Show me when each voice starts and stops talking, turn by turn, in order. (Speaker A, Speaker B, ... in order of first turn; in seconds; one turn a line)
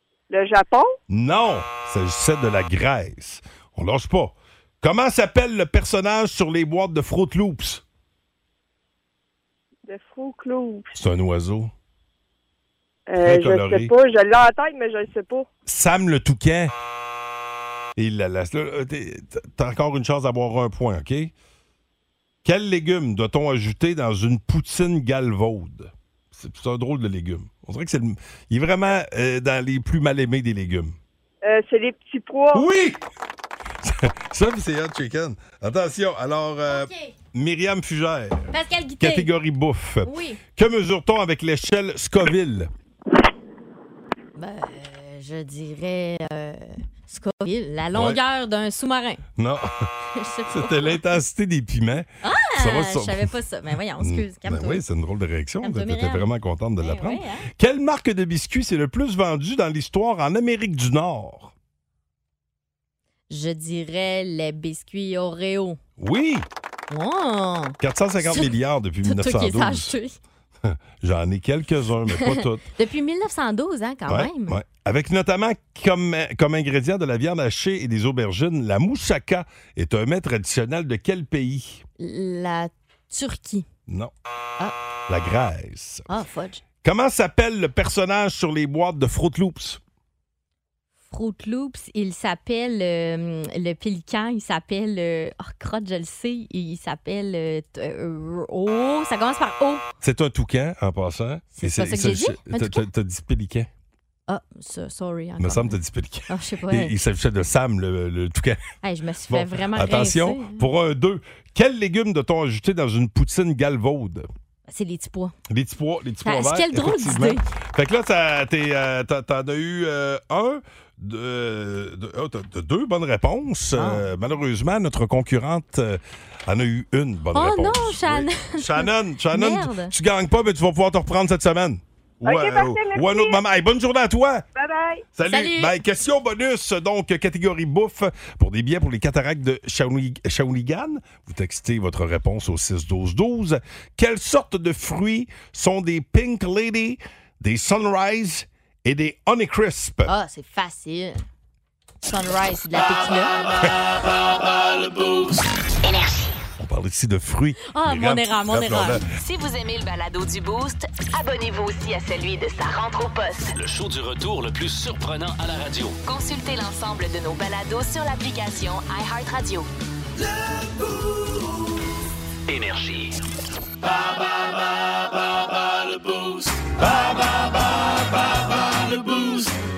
Speaker A: 0.3-0.9
Speaker B: 1.1-7.8
Speaker A: 9.8-10.9
Speaker B: 10.9-11.7
Speaker A: 13.1-15.5
Speaker B: 13.2-13.9
Speaker B: 15.7-16.7
Speaker B: 18.0-21.3
Speaker B: 22.4-30.9
Speaker A: 31.4-32.7
Speaker B: 32.5-33.0
Speaker B: 33.8-42.7
Speaker C: 36.7-37.1
Speaker C: 38.5-39.3
Speaker C: 40.0-40.4
Speaker C: 44.4-49.2
Speaker B: 47.9-48.2
Speaker B: 49.4-49.9
Speaker C: 50.1-51.0
Speaker B: 50.5-53.3
Speaker C: 52.2-54.8
Speaker B: 54.0-61.5
Speaker C: 55.6-56.3
Speaker C: 56.8-57.5
Speaker C: 63.3-65.8
Speaker B: 66.0-66.5
Speaker C: 66.9-70.2
Speaker B: 67.8-70.0
Speaker B: 70.6-72.6
Speaker C: 72.1-74.6
Speaker B: 74.1-81.8
Speaker C: 82.0-83.7
Speaker B: 83.9-84.1
Speaker B: 85.1-86.1
Speaker C: 86.1-86.6
Speaker B: 86.8-89.8
Speaker C: 91.1-99.8
Speaker B: 100.0-103.7
Speaker C: 101.5-102.8
Speaker C: 104.3-105.8
Speaker B: 105.4-108.6
Speaker C: 106.3-107.0
Speaker C: 108.8-110.7
Speaker B: 109.3-114.3
Speaker C: 114.7-115.3
Speaker B: 115.5-134.4
Speaker C: 116.2-117.4
Speaker C: 123.8-124.0
Speaker C: 127.3-129.9
Speaker A: 132.2-133.4
Speaker A: 134.6-135.0
Speaker B: 135.1-150.1
Speaker C: 135.2-135.7
Speaker C: 150.1-151.2
Speaker C: 152.1-153.4
Speaker D: 155.8-156.3
Speaker B: 156.6-159.1
Speaker C: 157.7-159.0
Speaker D: 159.2-163.5
Speaker E: 163.5-166.0
Speaker D: 166.0-169.7
Speaker E: 172.5-173.2
Speaker B: 176.8-178.1